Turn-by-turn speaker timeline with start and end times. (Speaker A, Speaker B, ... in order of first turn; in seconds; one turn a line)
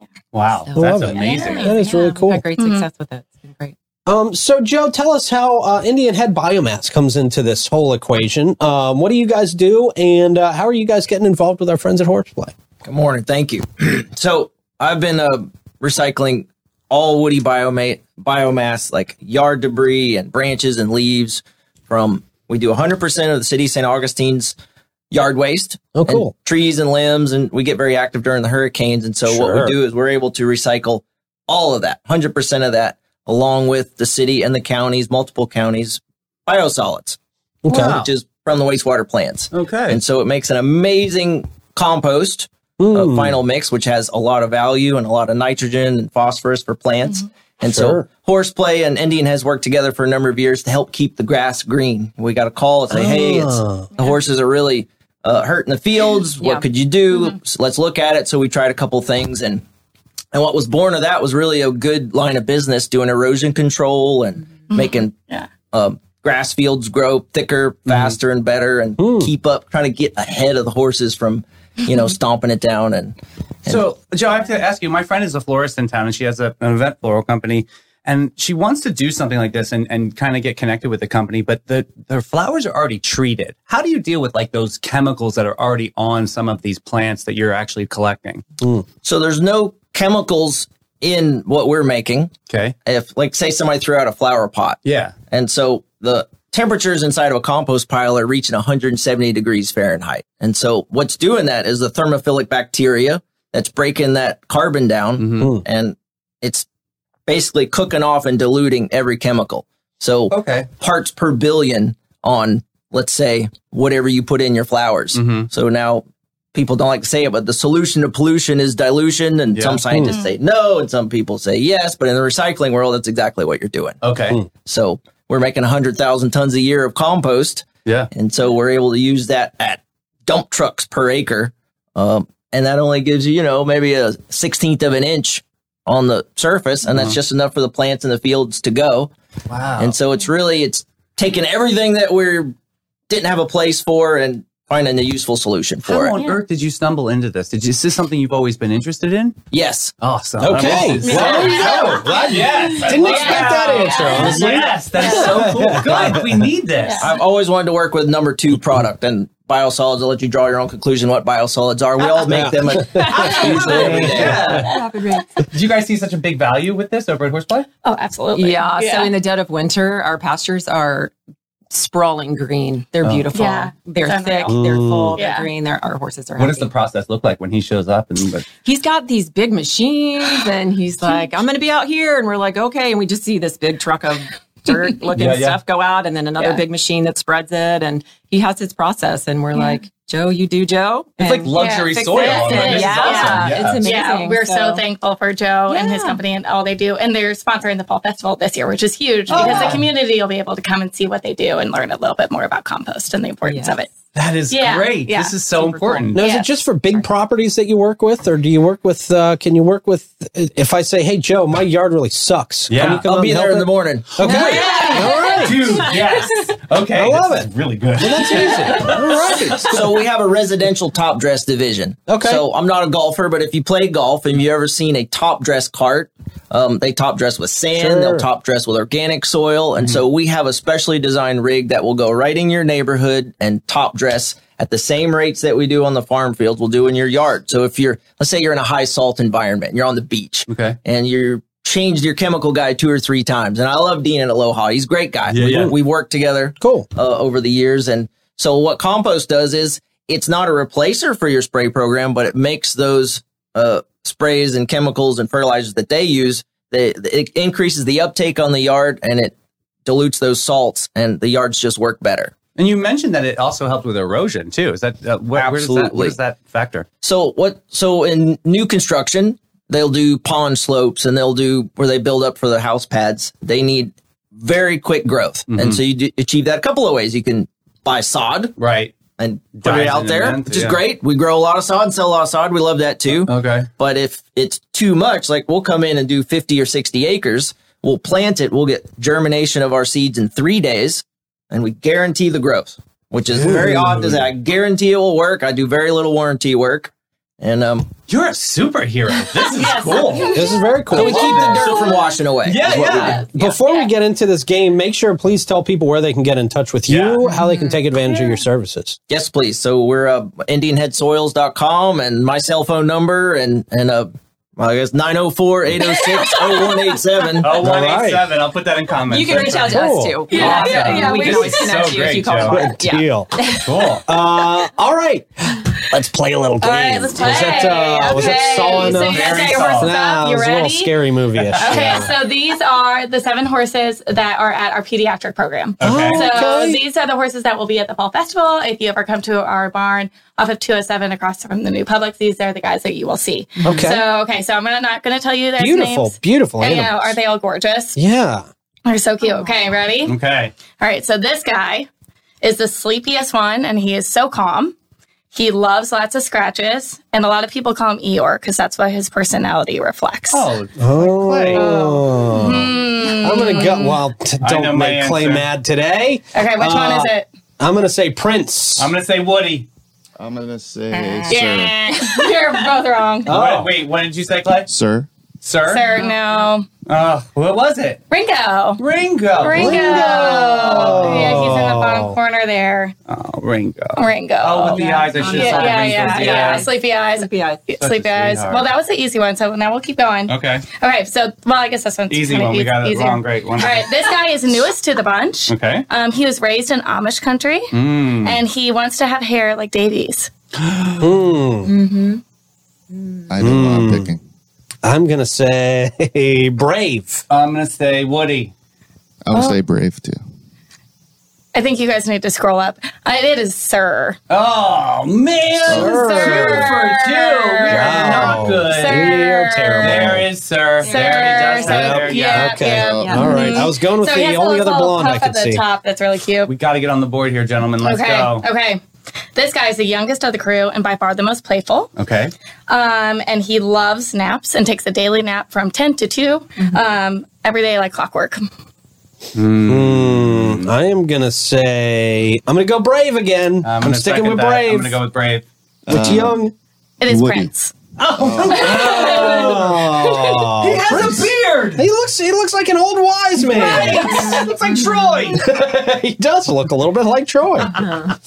Speaker A: 0.3-1.7
Speaker B: 0.7-3.7
Speaker C: 0.8-2.4
Speaker D: 1.1-1.9
Speaker D: 2.6-2.8
Speaker C: 4.0-12.5
Speaker E: 12.8-24.5
Speaker E: 25.1-37.2
Speaker C: 25.9-26.3
Speaker C: 29.2-29.8
Speaker C: 37.6-38.0
Speaker A: 37.7-38.1
Speaker E: 37.7-59.6
Speaker A: 39.5-40.0
Speaker C: 42.8-43.4
Speaker C: 47.6-48.0
Speaker C: 52.9-53.9
Speaker E: 60.3-73.8
Speaker D: 64.7-65.5
Speaker A: 67.9-68.2
Speaker C: 69.0-69.3
Speaker A: 73.7-88.4
Speaker E: 89.0-92.3
Speaker A: 92.5-92.7
Speaker E: 92.8-94.8
Speaker A: 94.8-95.1
Speaker E: 95.3-106.7
Speaker A: 105.2-105.5
Speaker C: 105.4-105.6
Speaker E: 107.3-124.0
Speaker A: 110.3-110.7
Speaker A: 115.1-115.5
Speaker A: 119.5-119.8
Speaker C: 119.9-120.2
Speaker D: 120.1-120.3
Speaker A: 124.0-124.4
Speaker E: 124.7-139.1
Speaker A: 136.9-137.2
Speaker A: 139.5-139.9
Speaker E: 139.8-142.5
Speaker E: 143.1-146.2
Speaker A: 145.9-149.4
Speaker E: 149.5-149.9
Speaker A: 150.0-157.1
Speaker C: 150.4-156.5
Speaker E: 150.6-150.8
Speaker D: 151.0-155.5
Speaker E: 154.1-155.9
Speaker E: 157.0-164.7
Speaker C: 162.3-164.7
Speaker D: 162.9-163.9
Speaker A: 163.3-164.8
Speaker B: 163.9-165.3
Speaker A: 165.5-167.7
Speaker D: 167.8-169.1
Speaker B: 168.3-171.1
Speaker B: 171.7-176.7
Speaker D: 173.3-174.6
Speaker C: 174.5-175.2
Speaker D: 175.1-175.5
Speaker A: 176.4-178.4
Speaker B: 178.6-194.8
Speaker A: 185.2-185.6
Speaker A: 191.2-193.8
Speaker D: 191.5-203.9
Speaker B: 195.7-196.2
Speaker A: 199.3-199.8
Speaker B: 199.3-199.7
Speaker B: 203.4-203.8
Speaker A: 204.1-206.3
Speaker D: 204.5-207.0
Speaker C: 206.1-215.9
Speaker A: 212.7-213.1
Speaker E: 213.0-214.3
Speaker D: 214.2-215.7
Speaker A: 214.3-214.6
Speaker B: 214.4-215.5
Speaker A: 215.3-219.8
Speaker C: 216.9-219.9
Speaker E: 219.6-259.3
Speaker C: 222.1-222.4
Speaker C: 227.7-228.3
Speaker A: 240.5-240.8
Speaker A: 245.3-245.7
Speaker C: 245.3-245.7
Speaker C: 246.6-246.9
Speaker E: 259.8-262.3
Speaker A: 262.6-266.9
Speaker E: 265.3-266.1
Speaker E: 267.0-278.6
Speaker A: 275.5-275.8
Speaker A: 278.6-278.9
Speaker E: 279.2-297.9
Speaker A: 279.6-280.8
Speaker A: 283.1-283.7
Speaker A: 293.3-293.9
Speaker C: 293.4-294.3
Speaker A: 298.1-301.9
Speaker D: 299.3-302.1
Speaker C: 300.2-301.8
Speaker E: 300.9-303.3
Speaker A: 302.4-303.3
Speaker D: 303.1-303.9
Speaker C: 303.2-309.0
Speaker A: 306.9-307.2
Speaker B: 307.2-307.8
Speaker E: 309.1-317.6
Speaker D: 315.8-316.8
Speaker A: 317.4-322.6
Speaker C: 317.5-318.3
Speaker B: 319.1-323.7
Speaker C: 319.3-320.5
Speaker D: 320.3-321.7
Speaker C: 322.4-332.1
Speaker A: 323.6-324.1
Speaker D: 326.6-330.9
Speaker A: 328.7-330.0
Speaker A: 331.3-332.0
Speaker D: 331.5-347.9
Speaker A: 335.8-336.2
Speaker C: 335.8-336.8
Speaker C: 343.6-344.0
Speaker C: 345.6-347.1
Speaker C: 347.9-348.4
Speaker D: 348.9-350.2
Speaker A: 350.1-350.5
Speaker D: 350.7-351.9
Speaker D: 352.4-354.7
Speaker D: 355.3-360.5
Speaker A: 360.3-361.7
Speaker C: 360.8-368.9
Speaker D: 361.5-364.0
Speaker A: 364.4-365.5
Speaker D: 366.3-367.3
Speaker A: 368.8-369.7
Speaker F: 370.2-371.9
Speaker D: 370.9-373.4
Speaker C: 373.2-373.7
Speaker A: 373.2-374.7
Speaker F: 374.6-375.1
Speaker A: 375.4-375.9
Speaker D: 375.6-376.7
Speaker B: 376.0-376.4
Speaker A: 376.9-378.0
Speaker D: 378.1-378.8
Speaker A: 378.8-381.5
Speaker D: 379.4-382.9
Speaker C: 379.5-382.2
Speaker A: 383.1-386.6
Speaker D: 383.9-400.3
Speaker B: 384.6-387.6
Speaker A: 387.8-388.7
Speaker A: 390.3-390.6
Speaker A: 392.1-394.1
Speaker A: 395.5-395.9
Speaker A: 397.7-398.4
Speaker A: 400.6-401.1
Speaker C: 401.0-401.7
Speaker B: 401.7-402.2
Speaker B: 402.9-403.2
Speaker F: 403.3-404.2
Speaker C: 403.4-404.1
Speaker C: 404.8-407.2
Speaker A: 407.3-408.5
Speaker F: 409.2-410.2
Speaker D: 409.3-409.6
Speaker D: 411.5-414.2
Speaker A: 414.3-419.2
Speaker F: 415.5-416.6
Speaker C: 415.7-416.7
Speaker D: 415.8-420.2
Speaker C: 417.7-420.3
Speaker A: 419.8-422.5
Speaker D: 420.8-426.5
Speaker B: 420.8-421.9
Speaker C: 421.6-425.6
Speaker F: 422.4-423.6
Speaker B: 423.0-423.3
Speaker A: 426.5-428.4
Speaker D: 427.8-428.8
Speaker D: 429.3-431.9
Speaker A: 432.0-432.3
Speaker D: 432.7-438.4
Speaker A: 439.3-440.7
Speaker C: 439.7-445.0
Speaker A: 443.6-445.4
Speaker F: 445.9-446.4
Speaker C: 445.9-446.5
Speaker D: 447.0-447.7
Speaker F: 447.1-447.5
Speaker A: 448.0-451.9
Speaker F: 448.1-449.4
Speaker C: 448.4-454.4
Speaker D: 448.4-449.6
Speaker A: 453.5-455.4
Speaker B: 453.9-454.5
Speaker C: 455.2-458.1
Speaker B: 457.7-458.1